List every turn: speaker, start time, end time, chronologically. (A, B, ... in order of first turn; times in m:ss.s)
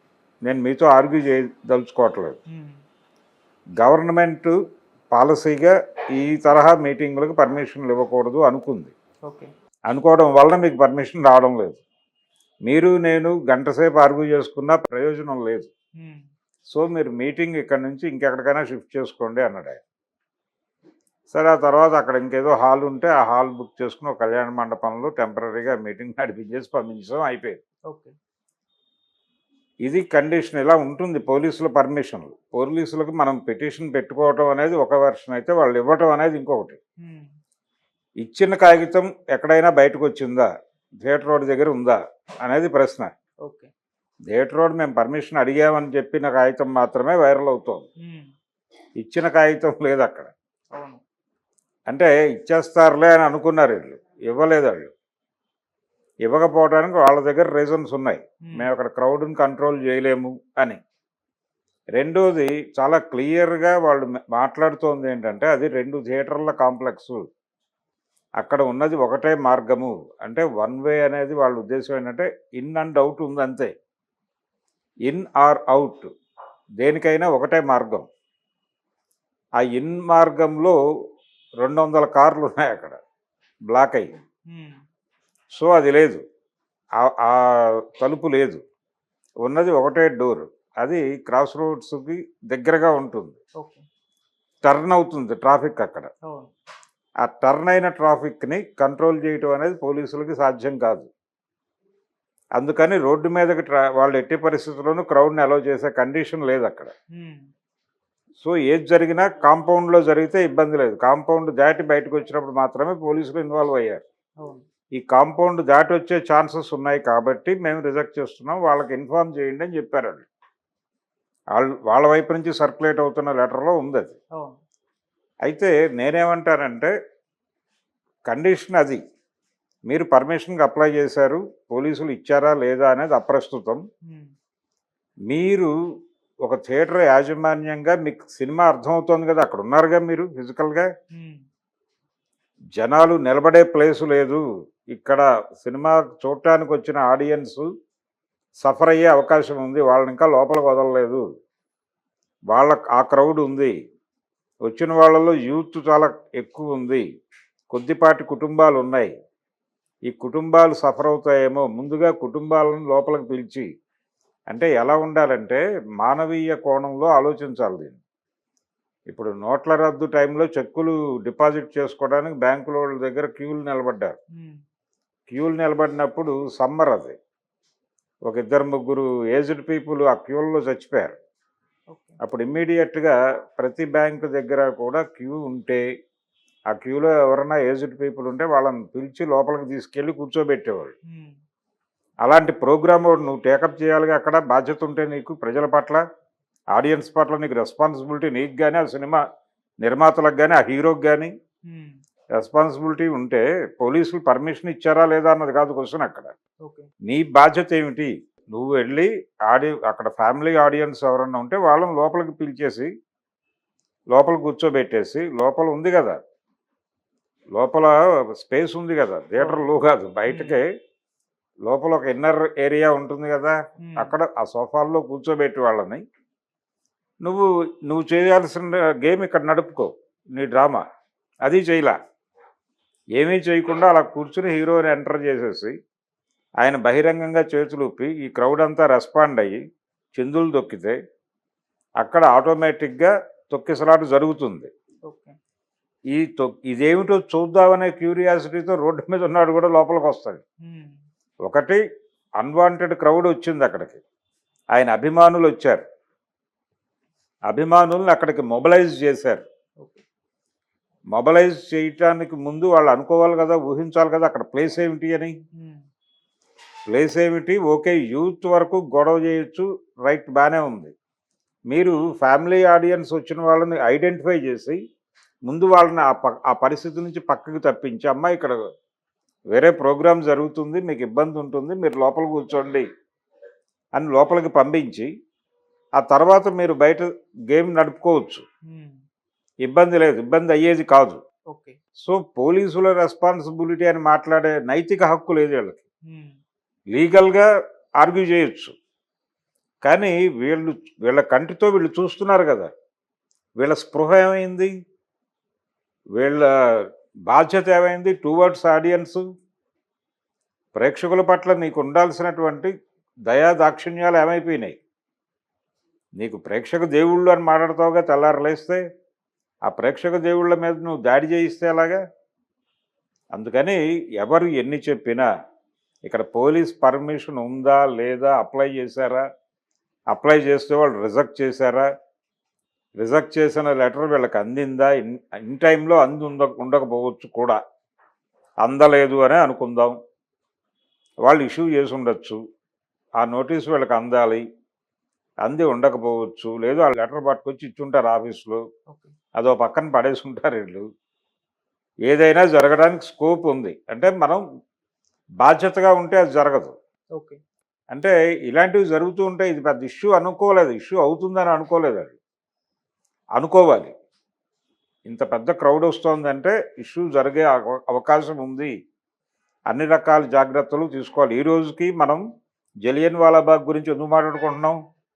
0:00.5-0:02.4 A
0:02.5-0:02.8 B
0:03.8-0:04.5 A
0:05.1-0:08.9 A
0:09.9-0:11.8 A
0:12.7-0:15.7 A
0:16.0-0:16.2 B
0:16.7-0:19.8 A
0:21.3-0:27.6 A
0:29.8-0:36.8 A
0:37.0-0:37.3 B
0:38.2-0:40.5 A
0:41.0-0:43.1 A
0:44.3-0:47.8 A
0:48.0-0:48.3 B
0:49.0-0:50.3 A
0:50.7-0:51.0 B
0:51.9-0:54.9 A
0:56.2-1:00.8 A
1:02.0-1:07.2 A
1:08.4-1:13.7 A
1:15.1-1:16.1 A
1:16.8-1:18.1 A
1:19.6-1:20.8 A
1:21.6-1:23.0 A
1:23.7-1:24.1 A
1:24.5-1:24.8 B
1:25.6-1:26.2 A
1:27.0-1:28.6 A
1:29.4-1:33.4 A
1:34.6-1:36.1 A
1:37.2-1:41.1 A
1:42.6-1:46.9 A
1:47.1-1:47.5 B
1:48.4-1:54.0 A
1:55.0-2:00.3 A
2:01.5-2:04.2 A
2:05.5-2:06.9 A
2:08.3-2:09.0 A
2:09.9-2:13.8 A
2:14.0-2:14.3 B
2:15.3-2:15.7 A
2:16.4-2:20.9 A
2:21.1-2:21.4 B
2:22.8-2:27.7 A
2:28.6-2:31.2 A
2:32.5-2:33.7 A
2:34.7-2:37.0 A
2:37.7-2:39.1 A
2:40.1-2:43.7 A
2:44.5-2:48.0 A
2:49.1-2:54.2 A
2:55.3-2:57.2 A
2:58.3-3:01.2 A
3:01.9-3:02.2 B
3:02.2-3:05.8 A
3:06.7-3:10.9 A
3:11.1-3:11.4 B
3:12.2-3:16.0 A
3:16.7-3:19.2 A
3:19.8-3:21.3 A
3:21.7-3:22.0 B
3:22.4-3:26.3 A
3:27.0-3:32.9 A
3:34.1-3:36.2 A
3:37.5-3:40.6 A
3:40.3-3:40.6 B
3:41.7-3:46.0 A
3:43.8-3:44.2 B
3:47.2-3:50.8 A
3:51.4-3:52.0 A
3:53.2-3:55.7 A
3:56.6-3:59.6 A
4:00.2-4:01.0 A
4:02.0-4:04.7 A
4:05.1-4:05.3 B
4:06.1-4:10.4 A
4:10.6-4:11.0 B
4:11.4-4:11.8 A
4:12.4-4:14.0 A
4:14.7-4:15.8 A
4:17.5-4:19.4 A
4:21.1-4:25.4 A
4:25.6-4:25.8 B
4:26.9-4:30.9 A
4:31.7-4:34.8 A
4:35.5-4:38.6 A
4:39.5-4:42.9 A
4:44.0-4:45.1 A
4:46.0-4:48.4 A
4:48.7-4:49.0 B
4:49.6-4:51.2 A
4:51.5-4:51.8 B
4:52.0-4:55.8 A
4:56.1-4:56.4 B
4:56.9-4:57.5 A
4:58.0-4:58.8 A
4:59.8-5:02.7 A
5:03.6-5:04.7 A
5:06.2-5:09.2 A
5:10.8-5:12.7 A
5:13.3-5:14.8 A
5:16.2-5:18.8 A
5:19.7-5:22.0 A
5:23.3-5:25.3 A
5:26.1-5:29.2 A
5:30.1-5:31.9 A
5:33.0-5:37.6 A
5:38.6-5:40.0 A
5:41.2-5:42.4 A
5:43.2-5:44.4 A
5:45.4-5:48.6 A
5:49.4-5:50.9 A
5:52.1-5:54.4 A
5:55.4-5:56.7 A
5:57.9-6:02.2 A
6:03.4-6:03.9 A
6:05.1-6:08.7 A
6:09.7-6:12.2 A
6:12.8-6:14.8 A